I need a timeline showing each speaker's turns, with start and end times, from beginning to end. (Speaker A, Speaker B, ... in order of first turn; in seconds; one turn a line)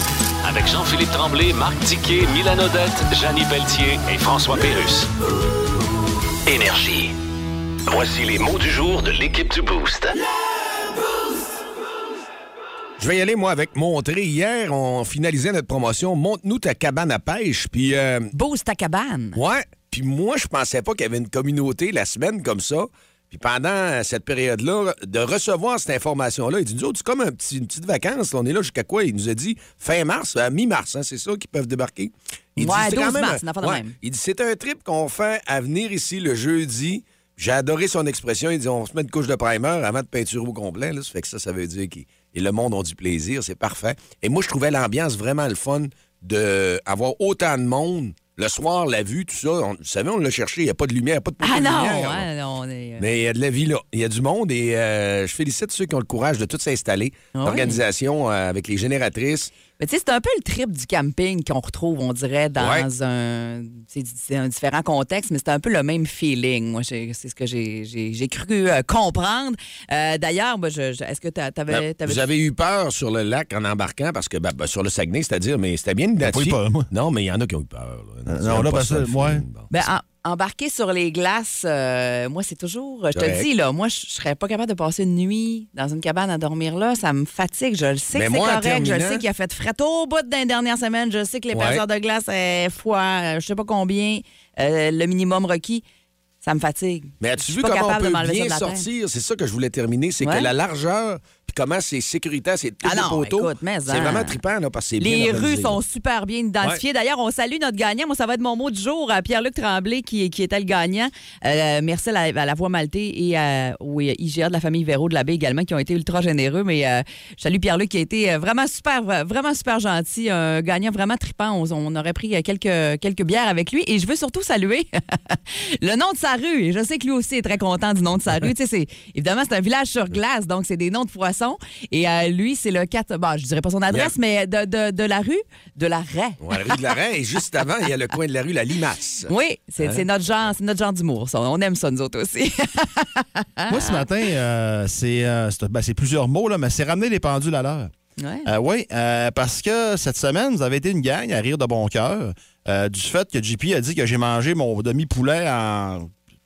Speaker A: 0.4-5.1
Speaker A: 6.5-7.1
Speaker A: 7.9-10.2
Speaker B: 13.0-18.3
Speaker C: 18.3-19.4
Speaker B: 19.3-52.3
Speaker C: 32.6-34.0
Speaker C: 51.4-53.1
Speaker B: 53.0-59.5
Speaker C: 57.3-57.8
Speaker C: 59.8-72.3
Speaker B: 62.6-62.9
Speaker B: 71.7-79.7
Speaker D: 76.2-76.9
Speaker D: 78.2-79.4
Speaker C: 79.7-95.8
Speaker B: 83.1-83.5
Speaker B: 88.1-89.2
Speaker B: 91.5-91.8
Speaker C: 96.4-98.8
Speaker B: 97.2-105.8
Speaker C: 100.2-100.5
Speaker C: 102.8-104.4
Speaker C: 105.0-136.8
Speaker B: 136.4-139.3
Speaker C: 139.3-144.0
Speaker D: 143.7-147.9
Speaker C: 148.2-148.5
Speaker D: 148.4-156.1